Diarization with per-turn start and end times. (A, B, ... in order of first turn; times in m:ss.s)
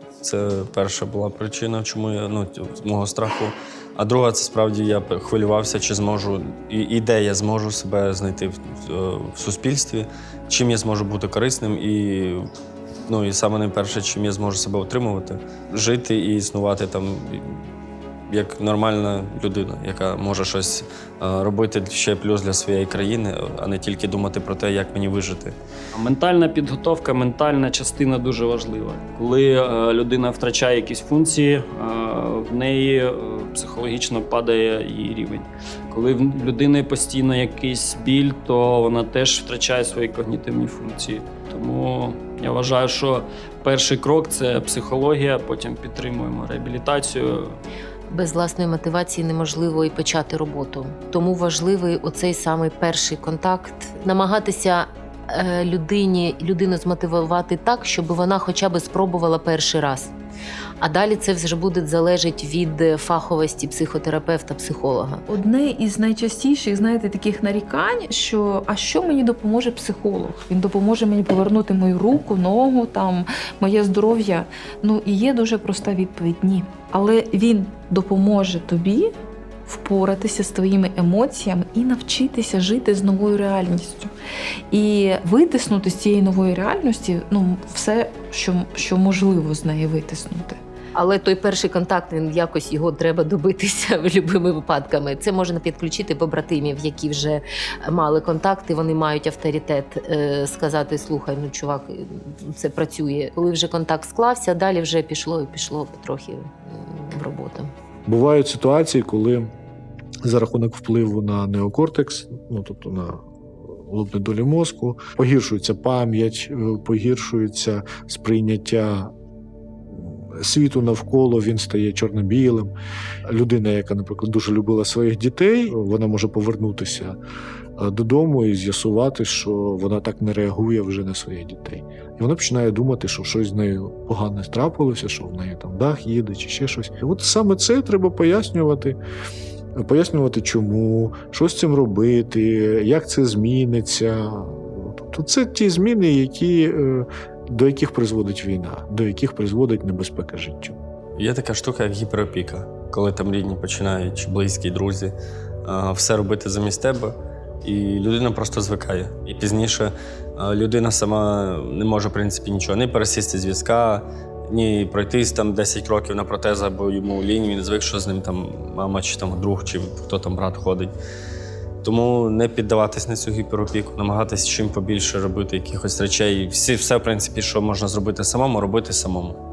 0:00.2-0:12.5 A
0:13.1-0:17.7 A
0:18.3-0:25.6 A
0:25.9-0:47.6 B
0:48.1-1:00.1 C
1:00.8-1:05.3 C
1:05.3-1:19.1 D
1:19.7-1:24.1 D
1:24.7-1:30.6 D
1:31.0-1:47.7 C
1:48.1-1:49.5 E
1:50.2-1:59.1 E
1:59.9-2:02.7 E
2:03.3-2:07.2 E
2:07.8-2:19.0 E
2:19.8-2:30.8 E
2:31.2-2:50.9 A
2:51.8-2:59.4 A